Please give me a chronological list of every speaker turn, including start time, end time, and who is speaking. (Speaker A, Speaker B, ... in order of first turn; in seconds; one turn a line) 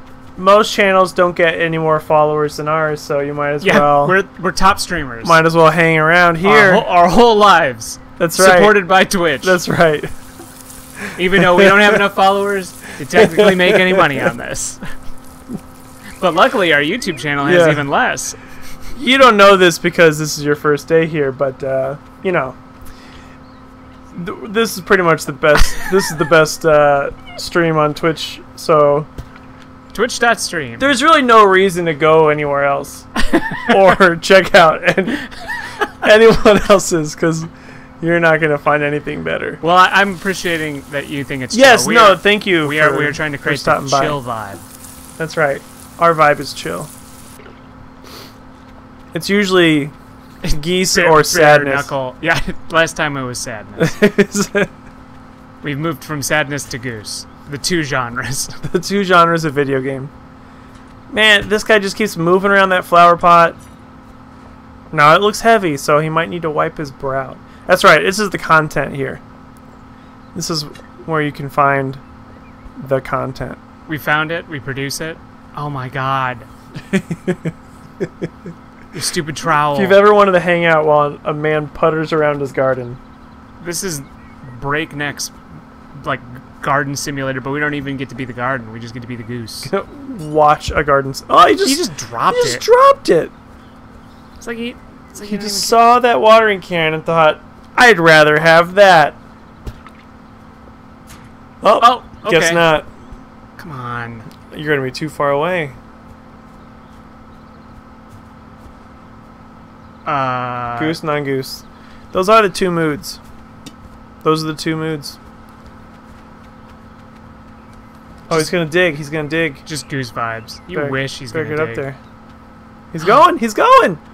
Speaker A: 0.3-4.2
Speaker B: 3.6-5.4
Speaker A: 5.2-6.8
Speaker B: 6.4-9.6
Speaker A: 8.2-8.8
Speaker A: 9.4-10.1
Speaker A: 11.0-12.0
Speaker B: 11.1-14.8
Speaker A: 13.1-14.3
Speaker B: 16.2-18.4
Speaker A: 17.4-17.9
Speaker A: 18.9-22.6
Speaker A: 24.1-29.1
Speaker B: 29.9-30.9
Speaker A: 30.8-39.6
Speaker B: 33.2-33.7
Speaker B: 39.6-44.6
Speaker A: 41.5-44.2
Speaker A: 45.2-46.9
Speaker A: 49.1-49.9
Speaker B: 50.4-54.0
Speaker A: 50.5-51.9
Speaker A: 53.8-54.7
Speaker B: 55.6-58.6
Speaker A: 58.6-60.1
Speaker A: 61.1-63.6
Speaker A: 64.9-69.2
Speaker A: 70.3-72.0
Speaker A: 72.8-73.6
Speaker B: 73.9-76.5
Speaker A: 76.9-78.3
Speaker B: 78.9-80.0
Speaker A: 79.7-83.0
Speaker B: 83.6-85.3
Speaker B: 85.9-89.7
Speaker A: 89.7-93.3
Speaker B: 91.6-92.6
Speaker B: 94.4-95.8
Speaker A: 95.2-99.2
Speaker A: 101.6-102.9
Speaker B: 101.8-102.7
Speaker B: 103.6-104.3
Speaker A: 104.5-105.8
Speaker B: 110.0-111.0
Speaker A: 110.8-113.2
Speaker A: 114.2-115.2
Speaker A: 118.3-119.6
Speaker B: 119.7-121.8
Speaker A: 120.7-122.0
Speaker A: 122.9-124.0